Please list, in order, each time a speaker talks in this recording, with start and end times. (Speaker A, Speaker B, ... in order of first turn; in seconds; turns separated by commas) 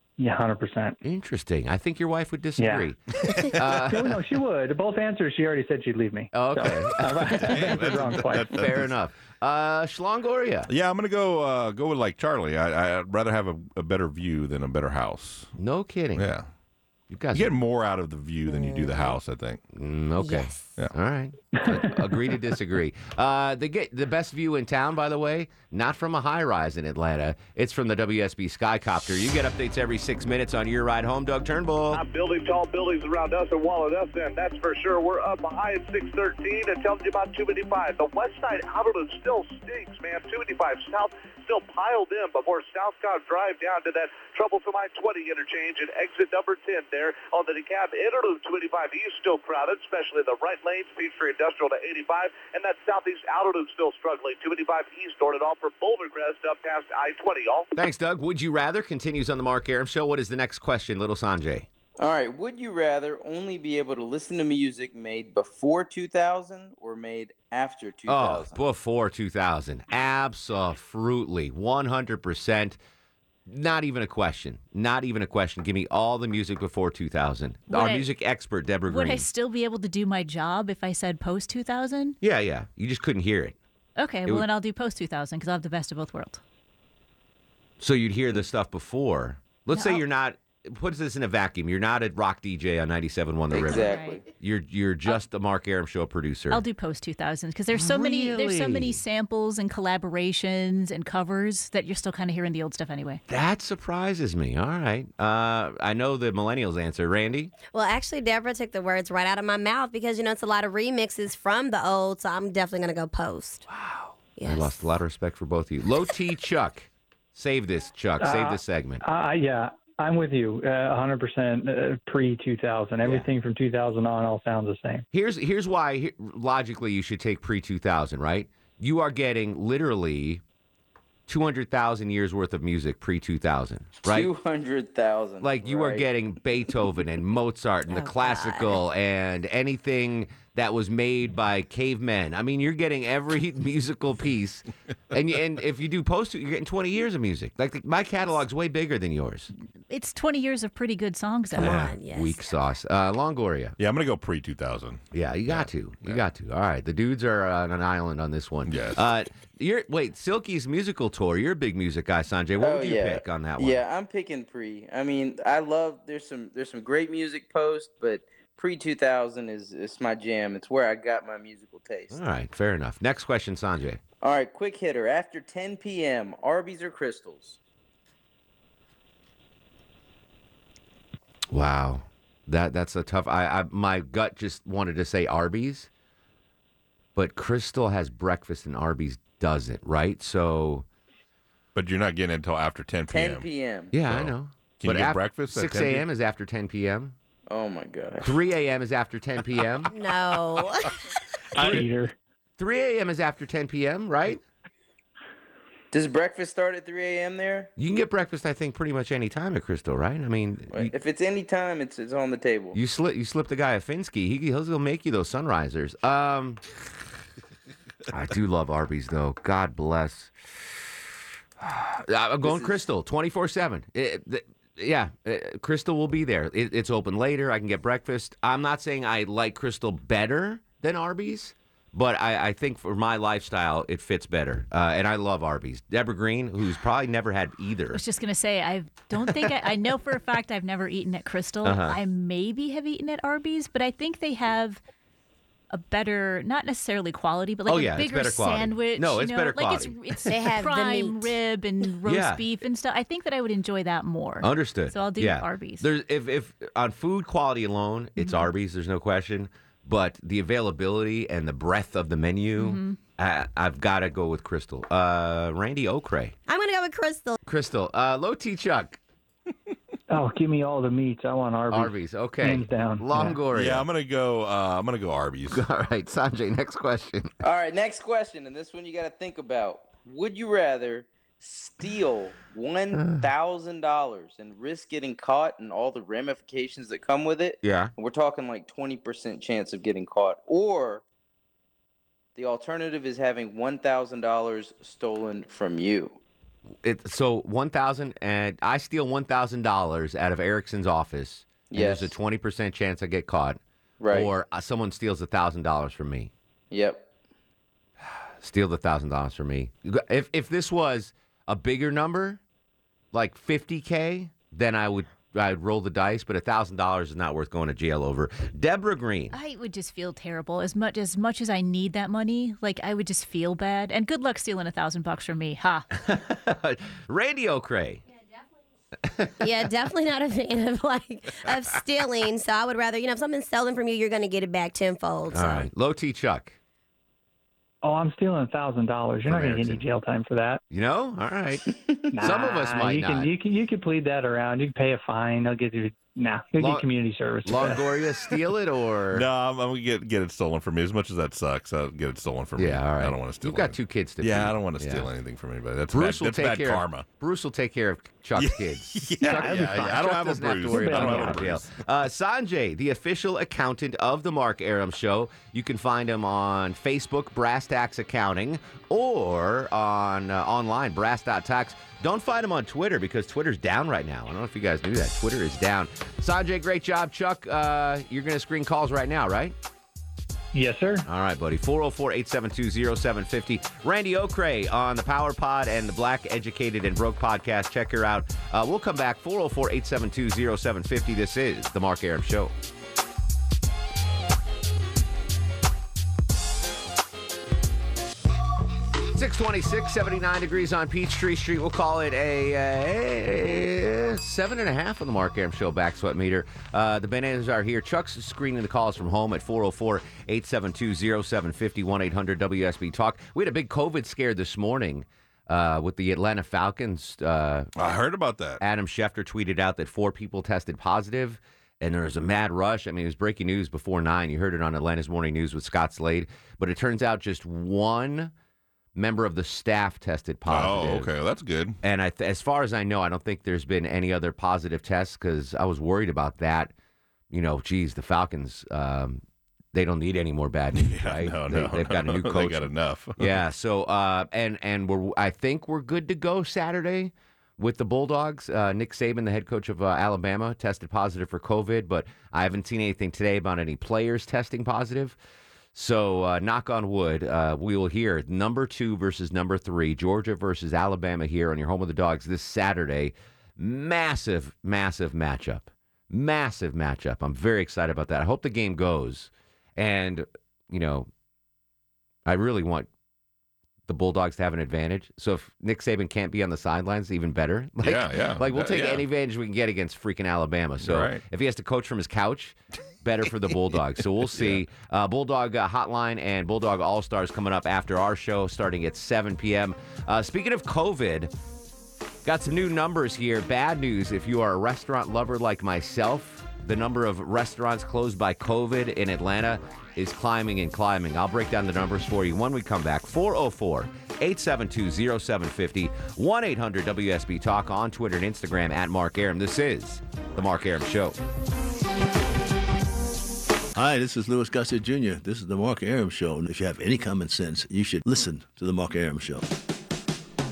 Speaker A: 0.2-1.0, Speaker B: 1.0-4.2, Speaker A: 2.6-2.9, Speaker A: 3.4-8.5, Speaker B: 6.3-7.9, Speaker C: 7.3-8.9, Speaker B: 8.5-10.7, Speaker C: 10.7-15.5, Speaker B: 15.6-16.3, Speaker C: 16.1-16.5, Speaker B: 17.1-17.6, Speaker C: 17.3-19.6, Speaker D: 18.5-19.1, Speaker B: 19.7-32.0, Speaker D: 20.2-20.6, Speaker E: 31.9-57.7, Speaker B: 57.8-61.7, Speaker F: 62.0-68.6, Speaker B: 68.1-72.8, Speaker B: 73.5-79.2, Speaker G: 77.7-78.1, Speaker G: 78.9-82.2, Speaker B: 82.2-83.6, Speaker G: 84.0-86.4, Speaker B: 87.8-96.6, Speaker G: 89.7-90.0, Speaker F: 93.5-94.2, Speaker G: 93.6-94.2, Speaker G: 96.5-103.2, Speaker B: 97.7-99.0, Speaker B: 103.3-107.5, Speaker D: 107.7-113.7, Speaker B: 113.7-119.0, Speaker D: 114.4-114.8, Speaker A: 118.2-125.0, Speaker B: 125.1-130.4, Speaker B: 131.3-134.3, Speaker F: 134.1-136.1, Speaker B: 135.4-149.5, Speaker D: 137.9-138.8, Speaker G: 149.9-151.9, Speaker B: 151.5-153.8, Speaker D: 151.6-152.5, Speaker C: 153.8-156.2, Speaker B: 155.1-163.8, Speaker C: 158.7-159.0, Speaker F: 162.6-172.2, Speaker B: 172.1-174.0, Speaker F: 174.2-177.6, Speaker B: 181.5-185.9, Speaker B: 187.2-190.9, Speaker C: 191.8-196.1, Speaker F: 193.1-193.9, Speaker B: 193.9-197.1, Speaker F: 197.5-198.4, Speaker B: 198.2-199.9, Speaker D: 199.9-201.0, Speaker C: 201.6-201.8, Speaker A: 201.6-202.1, Speaker B: 202.6-204.4, Speaker F: 205.9-207.7, Speaker B: 207.8-210.9, Speaker F: 210.7-212.8, Speaker B: 212.7-216.6, Speaker B: 218.1-220.3, Speaker B: 221.6-238.0, Speaker F: 222.4-222.8, Speaker G: 237.9-244.8, Speaker B: 241.6-242.0, Speaker G: 245.7-255.9, Speaker B: 247.7-250.3, Speaker D: 250.3-251.3, Speaker B: 252.1-252.4, Speaker B: 254.4-266.3, Speaker G: 258.2-258.5, Speaker G: 262.6-263.0, Speaker D: 266.5-267.4, Speaker B: 267.4-269.0, Speaker A: 270.1-273.4, Speaker B: 271.7-273.9, Speaker C: 273.5-275.6, Speaker B: 275.5-277.3, Speaker F: 277.4-291.0, Speaker B: 283.0-283.3, Speaker B: 287.6-287.9, Speaker F: 292.4-296.2, Speaker B: 296.8-303.6, Speaker F: 301.7-302.1, Speaker F: 304.0-304.3, Speaker B: 304.1-306.3, Speaker F: 306.7-307.1, Speaker B: 308.4-312.4, Speaker B: 313.1-319.3, Speaker G: 319.3-325.9, Speaker B: 326.0-328.0, Speaker B: 329.1-329.3, Speaker D: 329.4-335.7, Speaker B: 335.3-336.6, Speaker A: 337.8-340.6, Speaker B: 339.2-339.8, Speaker B: 340.7-343.3, Speaker A: 342.1-347.8, Speaker B: 346.6-346.9, Speaker B: 347.4-349.3, Speaker C: 349.1-357.1, Speaker B: 352.6-355.1, Speaker B: 355.9-379.5, Speaker C: 358.4-361.7, Speaker A: 360.7-361.4, Speaker A: 380.5-381.1, Speaker B: 381.1-392.5, Speaker B: 399.1-417.7, Speaker C: 417.8-418.6, Speaker B: 418.6-428.3, Speaker B: 428.9-431.1, Speaker C: 430.5-431.8, Speaker B: 431.8-436.7, Speaker B: 437.3-439.2, Speaker B: 439.7-455.2, Speaker C: 440.7-443.4, Speaker B: 455.8-471.1, Speaker B: 472.2-472.9, Speaker B: 473.9-491.3, Speaker C: 477.8-479.0, Speaker C: 480.8-481.2, Speaker C: 484.3-484.6, Speaker B: 492.2-511.2, Speaker H: 513.8-519.5